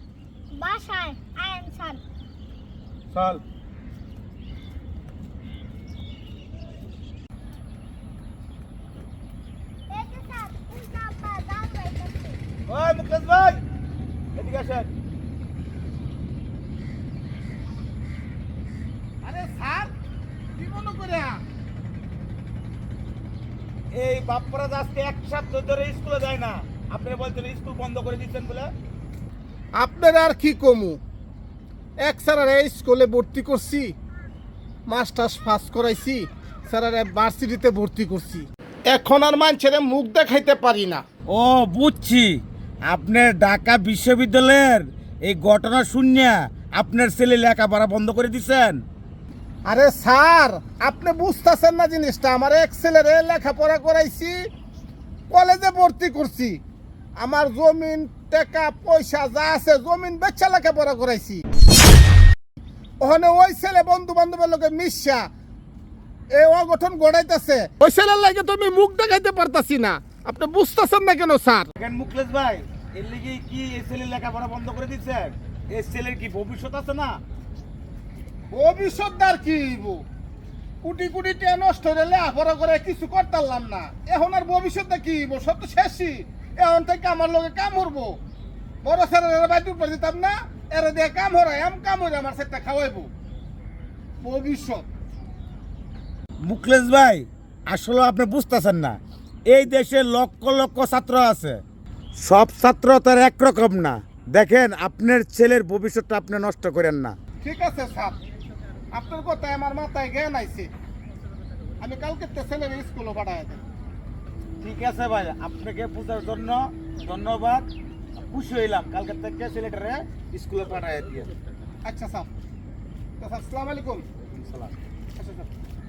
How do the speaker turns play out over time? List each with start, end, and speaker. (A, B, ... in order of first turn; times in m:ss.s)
0:00.5-0:02.0 A
0:03.1-0:03.4 B
0:09.9-0:12.4 A
0:12.7-0:13.6 B
0:14.4-0:14.9 B
0:19.2-0:19.9 C
0:20.6-0:21.4 C
0:23.9-0:28.7 B
0:29.8-0:31.0 C
0:32.0-0:33.9 C
0:34.9-0:41.0 C
0:41.3-0:48.8 B
0:49.6-0:54.4 C
0:55.3-0:56.6 C
0:57.2-1:01.4 C
1:03.0-1:05.3 C
1:06.3-1:11.7 C
1:11.8-1:17.2 B
1:18.5-1:20.0 C
1:20.8-1:28.2 C
1:28.8-1:33.1 C
1:34.2-1:34.8 C
1:36.4-1:39.0 B
1:39.5-1:41.6 B
1:42.2-1:47.2 B
1:47.4-1:48.2 C
1:48.9-1:50.7 C
1:51.8-1:53.6 C
1:54.6-2:01.3 B
2:01.8-2:02.3 C
2:03.2-2:04.0 C
2:04.4-2:04.7 B
2:05.2-2:05.5 C